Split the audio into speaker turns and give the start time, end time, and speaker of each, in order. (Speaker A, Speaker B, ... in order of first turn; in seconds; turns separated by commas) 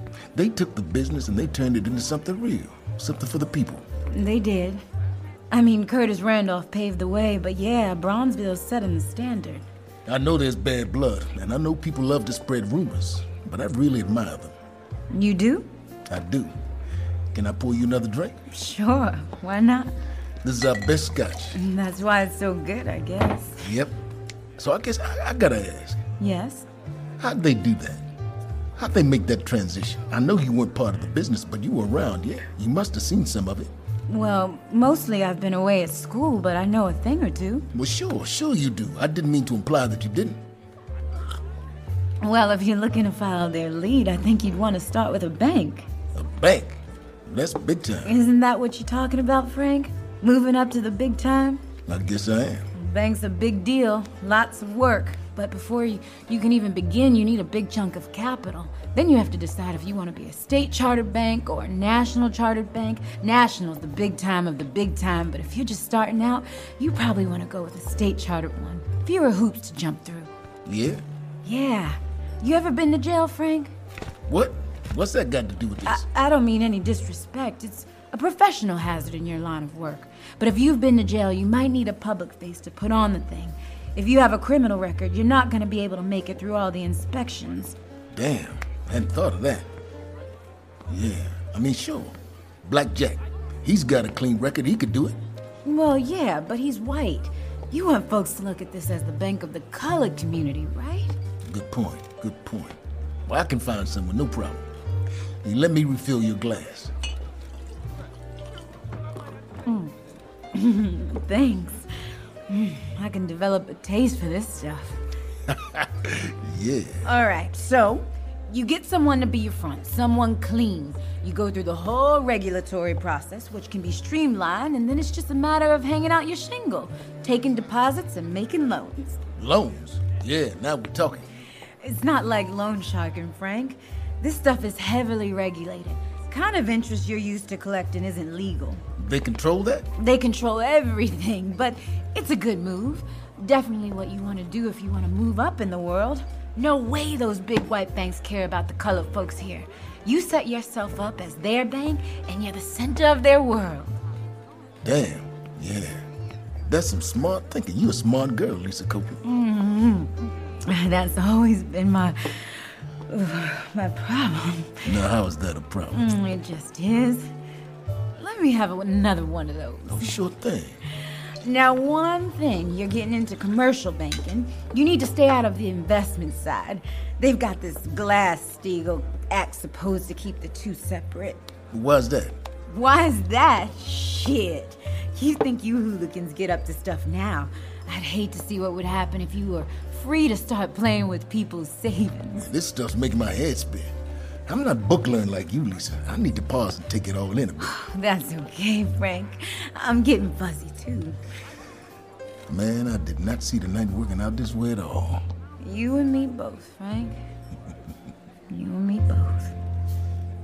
Speaker A: 0.3-3.8, Speaker B: 4.1-4.8, Speaker B: 5.5-9.7, Speaker A: 10.1-14.5, Speaker B: 15.1-15.7, Speaker A: 16.1-16.5, Speaker A: 17.3-18.4, Speaker B: 18.5-19.9, Speaker A: 20.4-21.5, Speaker B: 21.5-23.6, Speaker A: 23.6-23.9, Speaker A: 24.6-26.0, Speaker B: 26.2-26.6, Speaker A: 27.2-28.0, Speaker A: 28.8-33.7, Speaker B: 34.1-37.6, Speaker A: 37.7-40.4, Speaker B: 42.2-45.9, Speaker A: 46.1-48.2, Speaker B: 48.0-51.6, Speaker A: 51.9-52.6, Speaker B: 52.8-70.3, Speaker A: 70.7-71.0, Speaker B: 71.4-73.7, Speaker A: 74.3-76.0, Speaker B: 75.8-87.8, Speaker A: 88.1-89.7, Speaker A: 90.9-95.2, Speaker B: 95.6-101.2, Speaker A: 101.5-104.6, Speaker A: 105.4-106.9, Speaker B: 109.7-109.9, Speaker B: 110.5-115.0, Speaker A: 115.5-117.0, Speaker B: 117.0-129.2, Speaker A: 129.3-131.2, Speaker B: 131.8-138.8, Speaker A: 139.0-139.9, Speaker B: 140.0-154.0, Speaker A: 154.8-156.0, Speaker A: 156.7-159.2, Speaker B: 159.2-164.8, Speaker A: 164.8-166.0, Speaker B: 165.9-167.3, Speaker B: 168.2-170.1, Speaker A: 169.9-170.8, Speaker B: 171.4-181.5, Speaker A: 181.7-182.3, Speaker B: 182.7-192.4, Speaker A: 192.4-193.9, Speaker A: 194.5-197.7, Speaker B: 197.6-201.2, Speaker A: 202.5-205.2, Speaker B: 205.6-207.2, Speaker B: 208.5-209.5